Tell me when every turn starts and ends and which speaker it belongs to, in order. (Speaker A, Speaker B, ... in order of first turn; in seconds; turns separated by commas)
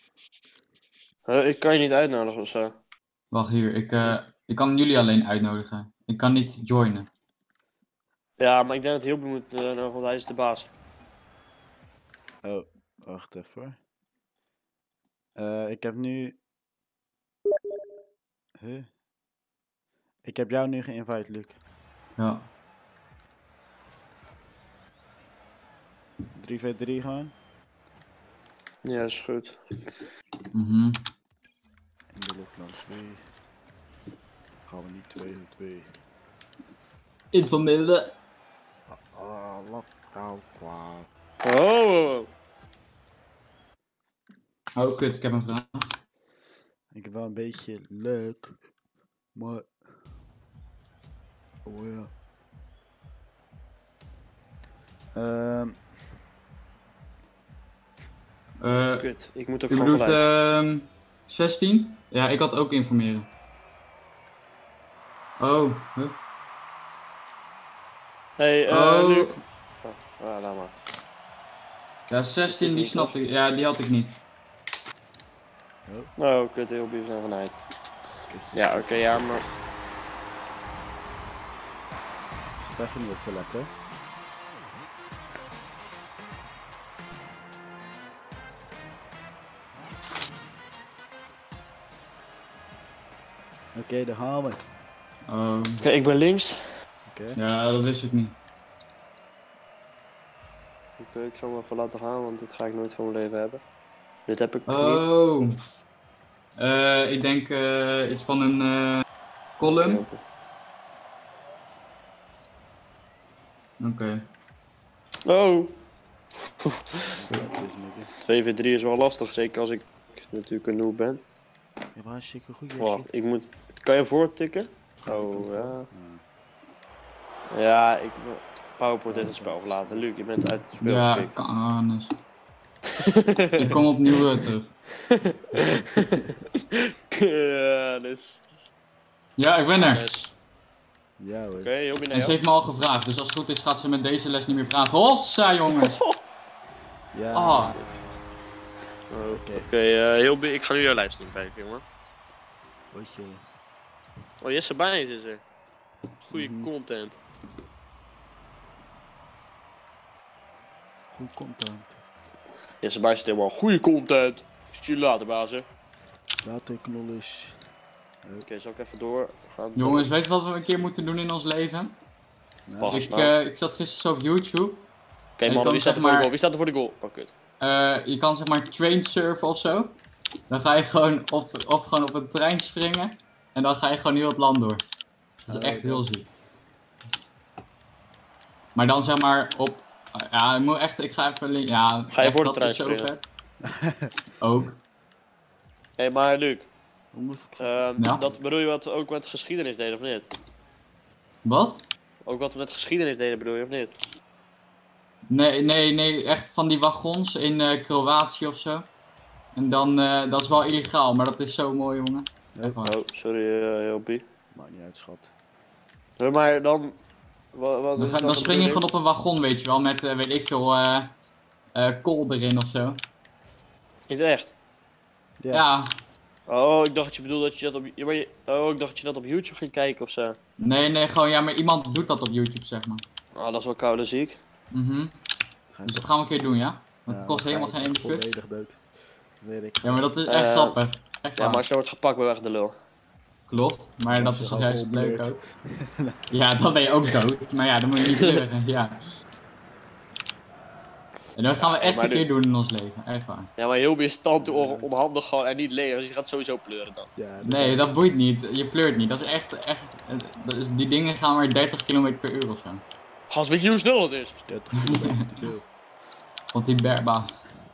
Speaker A: 1.3-2.7, Speaker B: 3.3-7.1, Speaker A: 8.4-10.7, Speaker C: 12.4-13.8, Speaker C: 15.3-16.4, Speaker C: 18.6-18.9, Speaker C: 20.2-21.6, Speaker B: 22.2-22.5, Speaker C: 26.3-27.3, Speaker A: 28.8-29.9, Speaker B: 30.5-31.0, Speaker C: 32.1-33.2, Speaker C: 34.6-36.0, Speaker B: 37.3-38.1, Speaker C: 38.9-41.1, Speaker A: 41.4-42.3, Speaker B: 44.8-45.9, Speaker C: 46.9-48.6, Speaker C: 49.3-50.1, Speaker C: 51.6-52.1, Speaker C: 55.1-56.1, Speaker B: 58.6-59.1, Speaker A: 59.0-60.2, Speaker B: 59.7-63.3, Speaker B: 65.4-66.2, Speaker A: 68.4-70.7, Speaker B: 68.7-69.4, Speaker B: 72.1-74.2, Speaker A: 72.5-73.1, Speaker A: 76.2-77.6, Speaker C: 78.3-79.6, Speaker A: 78.5-79.4, Speaker C: 82.6-83.7, Speaker C: 93.7-94.7, Speaker B: 95.3-95.8, Speaker A: 95.8-96.6, Speaker C: 97.1-97.4, Speaker B: 97.3-98.3, Speaker A: 101.0-103.6, Speaker A: 104.3-105.1, Speaker B: 104.7-105.5, Speaker B: 106.6-109.0, Speaker B: 109.6-110.0, Speaker A: 109.6-110.2, Speaker B: 113.8-114.2, Speaker A: 115.2-115.7, Speaker A: 116.6-117.0, Speaker C: 117.1-118.1, Speaker A: 118.2-121.2, Speaker C: 121.9-123.1, Speaker A: 122.8-125.9, Speaker C: 125.0-126.2, Speaker A: 127.5-131.4, Speaker C: 129.1-130.3, Speaker B: 130.8-132.2, Speaker A: 133.0-133.6, Speaker B: 133.6-134.7, Speaker A: 135.1-138.4, Speaker B: 139.4-140.0, Speaker A: 139.8-140.3, Speaker C: 141.2-141.7, Speaker A: 141.6-142.3, Speaker B: 142.1-146.0, Speaker A: 145.8-146.2, Speaker C: 147.1-147.9, Speaker B: 147.3-147.7, Speaker A: 149.1-151.8, Speaker C: 149.3-149.7, Speaker C: 152.9-153.4, Speaker A: 154.4-155.4, Speaker A: 156.2-157.2, Speaker C: 156.3-156.7, Speaker C: 161.1-162.0, Speaker A: 162.8-165.7, Speaker C: 166.4-167.7, Speaker A: 168.4-170.1, Speaker B: 169.8-171.9, Speaker C: 170.6-170.9, Speaker C: 172.7-173.0, Speaker A: 172.8-173.3, Speaker B: 172.9-174.8, Speaker A: 175.4-177.3, Speaker B: 175.4-176.3, Speaker B: 177.6-179.9, Speaker B: 180.5-184.8, Speaker C: 185.4-186.1, Speaker B: 185.5-186.2, Speaker B: 188.7-193.2, Speaker A: 192.1-193.1, Speaker C: 193.6-194.1, Speaker B: 194.4-194.8, Speaker A: 196.0-196.7, Speaker C: 197.1-197.7, Speaker A: 197.6-200.3, Speaker B: 198.0-198.2, Speaker B: 201.4-201.8, Speaker A: 202.2-203.9, Speaker B: 205.3-208.8, Speaker B: 209.5-212.9, Speaker A: 212.8-214.2, Speaker C: 214.5-215.3, Speaker A: 216.2-216.9, Speaker A: 217.5-218.8, Speaker B: 218.0-221.1, Speaker B: 221.7-223.0, Speaker A: 224.1-224.5, Speaker C: 225.4-225.6, Speaker B: 225.5-225.9, Speaker A: 226.5-230.4, Speaker B: 230.6-233.0, Speaker A: 233.3-234.4, Speaker B: 234.7-235.1, Speaker C: 235.7-236.1, Speaker B: 235.8-238.2, Speaker C: 237.1-240.1, Speaker B: 239.8-241.6, Speaker A: 240.3-240.8, Speaker A: 241.4-242.8, Speaker B: 243.5-245.4, Speaker C: 244.1-246.2, Speaker B: 246.3-249.0, Speaker B: 251.3-253.5, Speaker A: 251.6-252.2, Speaker A: 253.6-257.1, Speaker C: 254.4-254.9, Speaker C: 257.1-257.9, Speaker B: 257.4-262.8, Speaker A: 263.3-264.4, Speaker C: 264.4-265.6, Speaker B: 264.8-265.1, Speaker B: 266.5-267.3